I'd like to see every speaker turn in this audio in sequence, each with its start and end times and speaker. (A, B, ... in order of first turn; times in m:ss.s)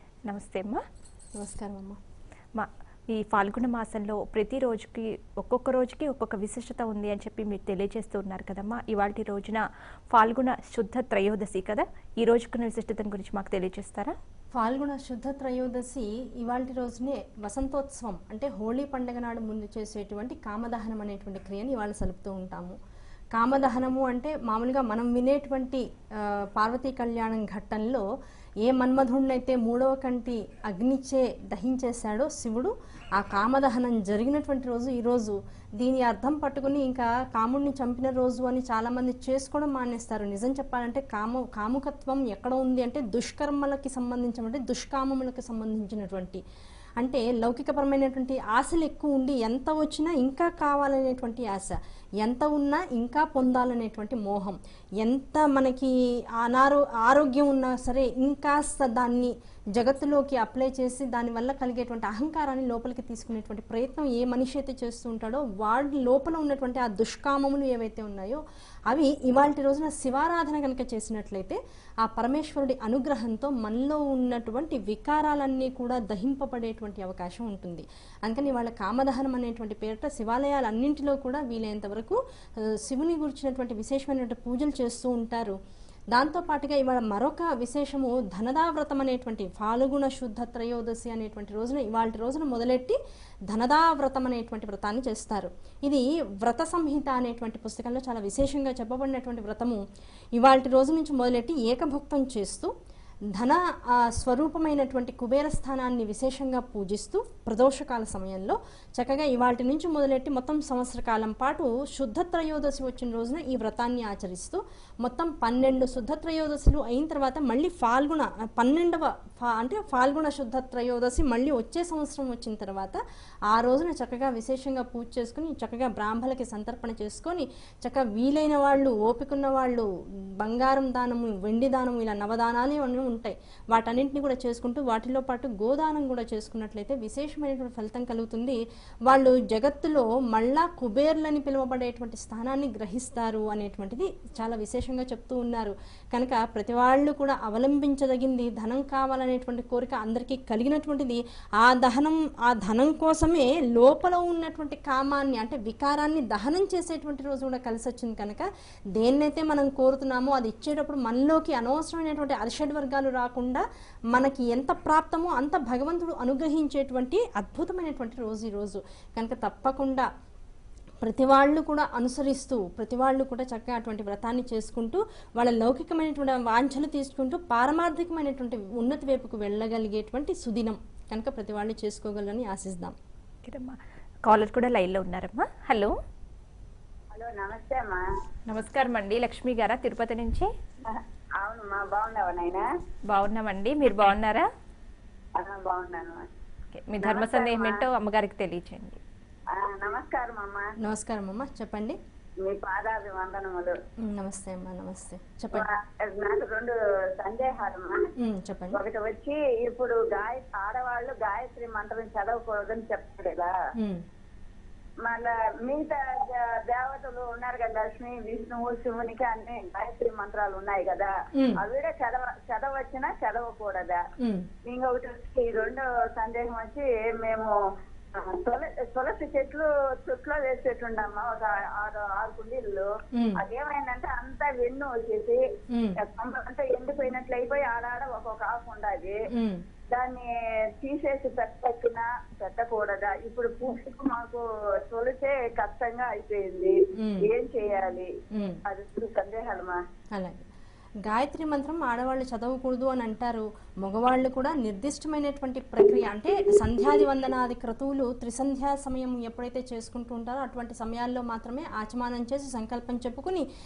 0:00.3-0:00.8 A
0:01.4-0:02.0 B
0:02.5-0:14.2 A
0:14.5-0:22.8 B
0:23.3-0:28.0 B
0:28.6-0:46.4 B
0:47.0-1:25.6 B
1:26.1-1:33.0 B
1:33.5-1:39.8 B
1:40.4-1:42.7 B
1:43.3-2:03.0 B
2:03.5-2:09.9 B
2:10.4-2:38.4 B
2:39.0-2:50.1 B
2:51.0-3:03.0 B
3:03.4-3:05.9 A
3:07.1-3:08.0 C
3:08.5-3:10.5 A
3:10.8-3:12.6 C
3:13.1-3:14.5 A
3:15.4-3:16.3 C
3:16.7-3:19.0 A
3:17.0-3:17.8 C
3:19.5-3:20.7 C
3:20.8-3:22.0 B
3:22.4-3:23.8 C
3:24.0-3:25.7 B
3:25.5-3:28.1 C
3:28.2-3:28.8 B
3:28.7-3:33.5 C
3:33.8-3:34.0 B
3:35.0-3:44.0 C
3:44.2-3:44.5 B
3:44.6-3:47.5 C
3:48.1-3:55.4 C
3:55.7-3:56.0 B
3:56.0-3:59.2 C
3:59.3-3:59.6 B
3:59.9-4:08.1 C
4:07.0-4:07.3 B
4:08.3-4:08.6 B
4:08.6-4:09.8 C
4:10.1-4:10.5 B
4:11.0-4:23.4 B